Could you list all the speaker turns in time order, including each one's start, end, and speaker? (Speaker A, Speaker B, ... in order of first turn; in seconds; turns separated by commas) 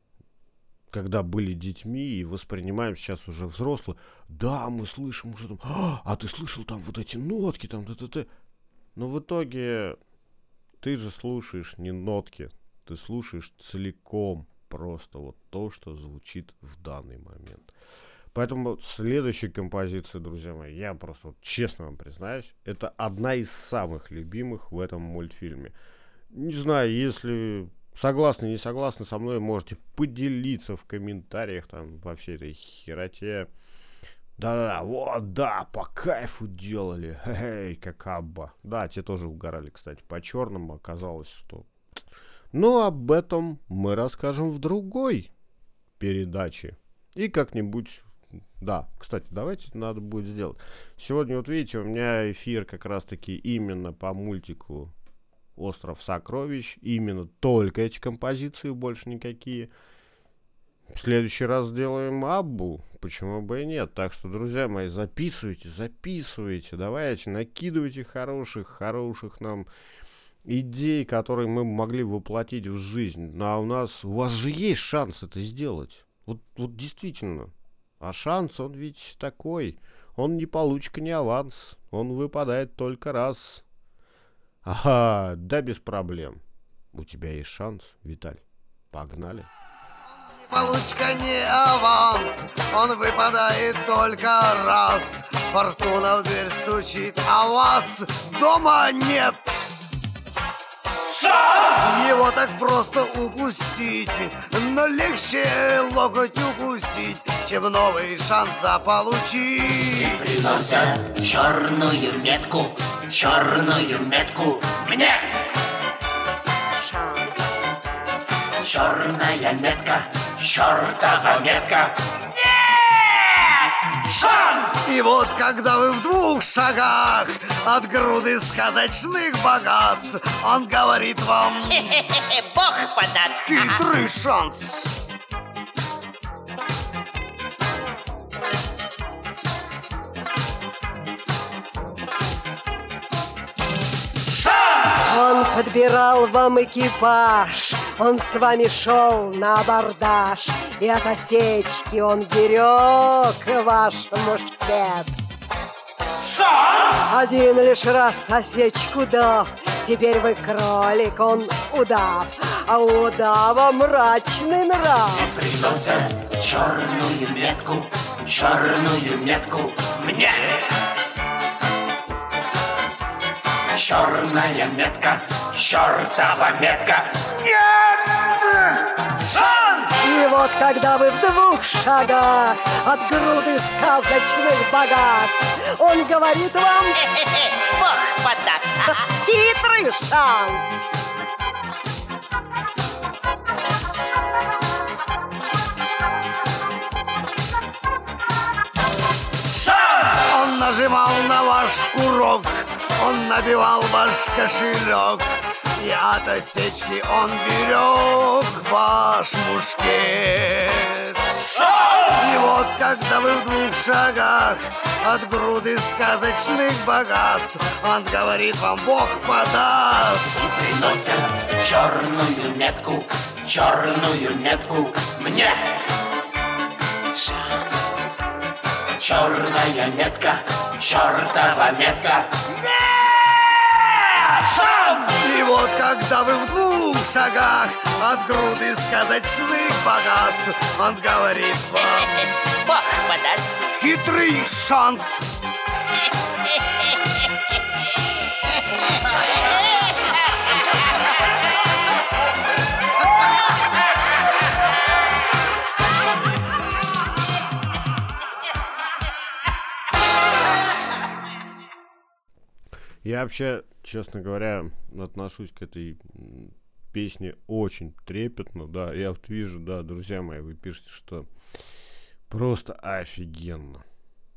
Speaker A: 0.9-8.3, Speaker A: 8.9-10.0, Speaker A: 10.8-17.7, Speaker A: 18.3-25.7, Speaker A: 26.3-33.5, Speaker A: 34.4-41.7, Speaker A: 42.5-45.3, Speaker A: 46.0-54.9, Speaker A: 55.5-59.7, Speaker A: 60.9-69.7, Speaker A: 70.4-83.6, Speaker A: 84.6-86.4, Speaker A: 86.9-89.5, Speaker B: 90.4-99.6, Speaker B: 101.7-110.2, Speaker C: 110.0-115.4, Speaker C: 118.6-121.9, Speaker C: 124.2-124.5, Speaker B: 124.8-131.9, Speaker D: 132.1-133.4, Speaker B: 133.4-134.9, Speaker E: 145.0-155.1, Speaker E: 157.1-165.3, Speaker C: 165.1-170.6, Speaker C: 173.7-177.4, Speaker E: 180.0-187.1, Speaker D: 187.6-188.8, Speaker E: 188.8-190.8, Speaker B: 200.0-211.3, Speaker B: 212.0-220.4, Speaker C: 220.4-225.7, Speaker C: 228.9-232.3, Speaker B: 235.1-242.2, Speaker D: 242.8-243.5, Speaker B: 243.7-245.2, Speaker A: 263.0-271.3, Speaker A: 272.3-273.8